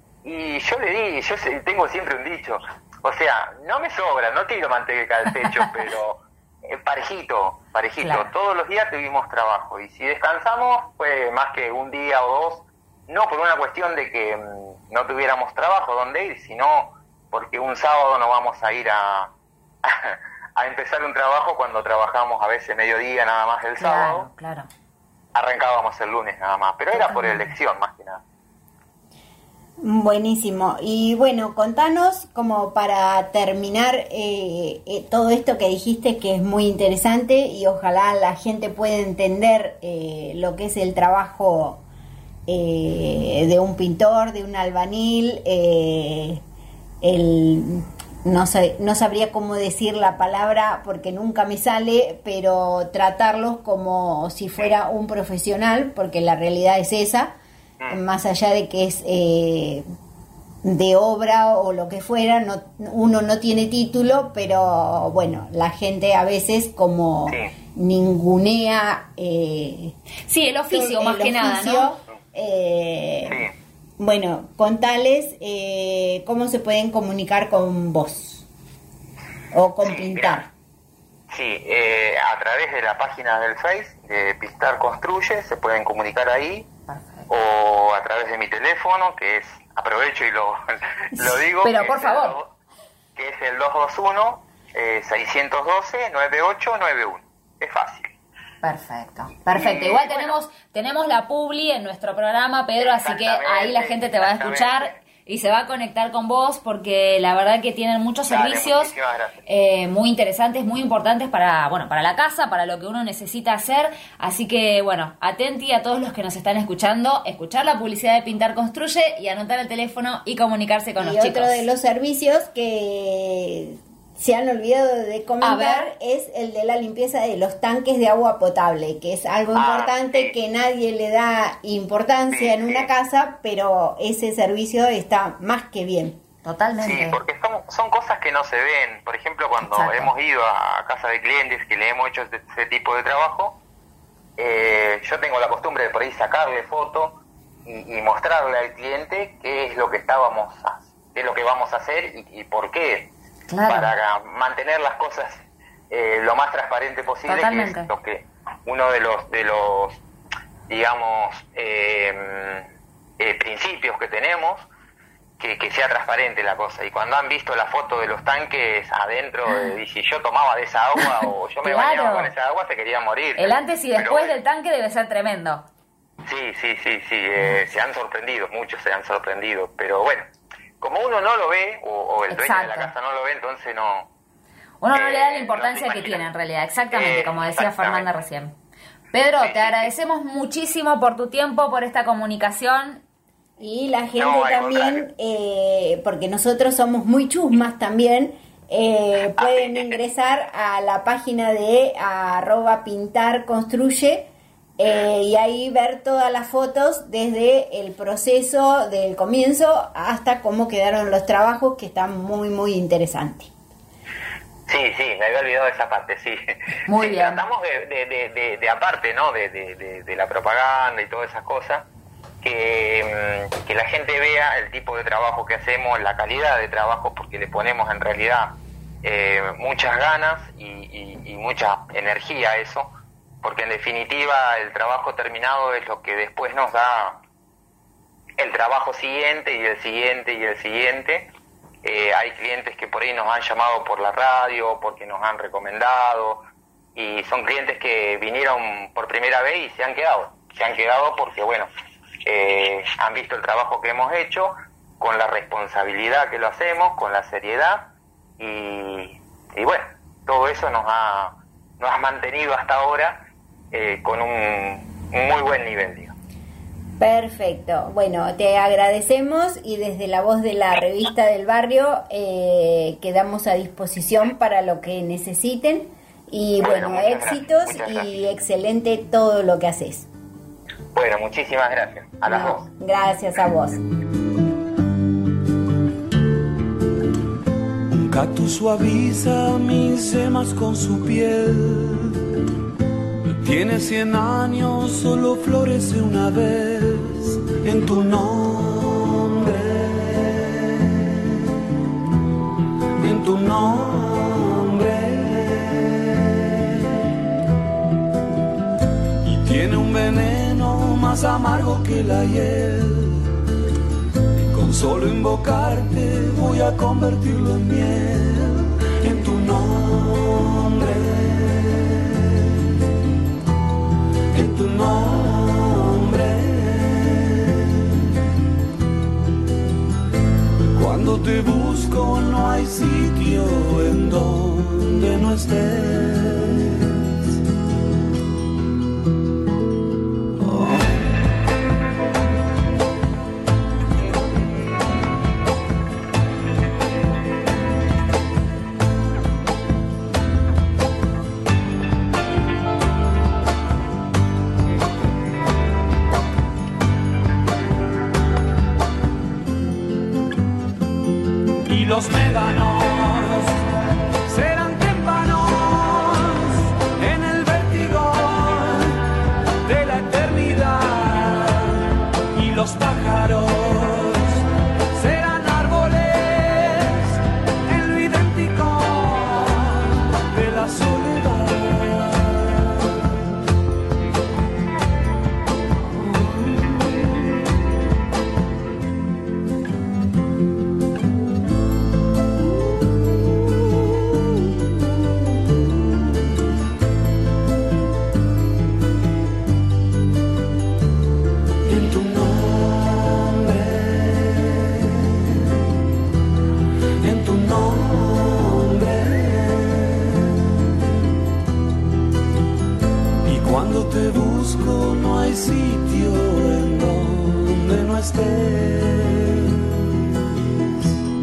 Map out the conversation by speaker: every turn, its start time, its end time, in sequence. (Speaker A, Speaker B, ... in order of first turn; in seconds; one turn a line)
Speaker A: 0.2-19.3
Speaker B: 8.0-8.3
Speaker A: 19.8-24.3
Speaker B: 23.8-24.7
Speaker A: 25.4-28.2
Speaker B: 26.9-27.6
Speaker C: 29.8-41.8
Speaker C: 42.5-46.4
Speaker C: 47.0-57.3
Speaker C: 57.9-59.9
Speaker C: 60.6-70.0
Speaker B: 70.3-71.9
Speaker C: 70.7-73.4
Speaker A: 73.2-73.5
Speaker C: 74.0-78.5
Speaker C: 79.5-80.5
Speaker A: 79.8-80.4
Speaker A: 81.3-86.7
Speaker B: 86.9-87.3
Speaker A: 87.3-92.5
Speaker B: 91.2-92.4
Speaker A: 93.2-98.1
Speaker B: 98.6-109.0
Speaker A: 99.4-100.3
Speaker A: 102.8-105.0
Speaker A: 108.3-109.4
Speaker B: 109.5-121.6
Speaker C: 121.0-136.2
Speaker B: 125.4-125.9
Speaker A: 129.5-130.3
Speaker A: 132.3-132.9
Speaker B: 136.4-137.2
Speaker A: 136.8-143.6
Speaker B: 139.6-140.1
Speaker A: 144.4-153.1
Speaker B: 153.5-153.9
Speaker A: 153.7-160.0
Speaker B: 157.3-157.9
Speaker A: 160.7-162.7
Speaker A: 163.2-164.7
Speaker A: 165.4-174.3
Speaker B: 171.6-172.3
Speaker B: 173.4-175.7
Speaker A: 176.2-180.3
Speaker A: 180.8-184.1
Speaker B: 182.3-182.9
Speaker B: 184.8-188.6
Speaker A: 184.9-186.2
Speaker A: 186.9-188.1
Speaker B: 189.1-193.0
Speaker A: 189.4-189.9
Speaker C: 193.6-213.5
Speaker A: 194.2-195.1
Speaker A: 199.4-199.9
Speaker A: 214.7-221.9
Speaker B: 216.9-217.4
Speaker A: 222.4-232.9
Speaker A: 233.4-237.2
Speaker A: 238.4-241.3
Speaker A: 241.8-246.4
Speaker A: 246.9-251.7
Speaker A: 252.2-266.1
Speaker C: 267.0-280.1
Speaker A: 276.6-278.1
Speaker A: 280.9-282.7
Speaker C: 282.3-283.8
Speaker D: 287.9-292.1
Speaker D: 293.4-300.2
Speaker D: 303.0-305.8
Speaker D: 309.2-313.1
Speaker D: 314.4-321.3
Speaker D: 324.3-326.8
Speaker D: 330.8-336.6
Speaker D: 340.4-340.8
Speaker D: 369.8-370.6
Speaker D: 372.4-373.5
Speaker D: 380.4-381.5
Speaker D: 401.7-402.4
Speaker D: 407.0-409.4
Speaker D: 413.3-419.2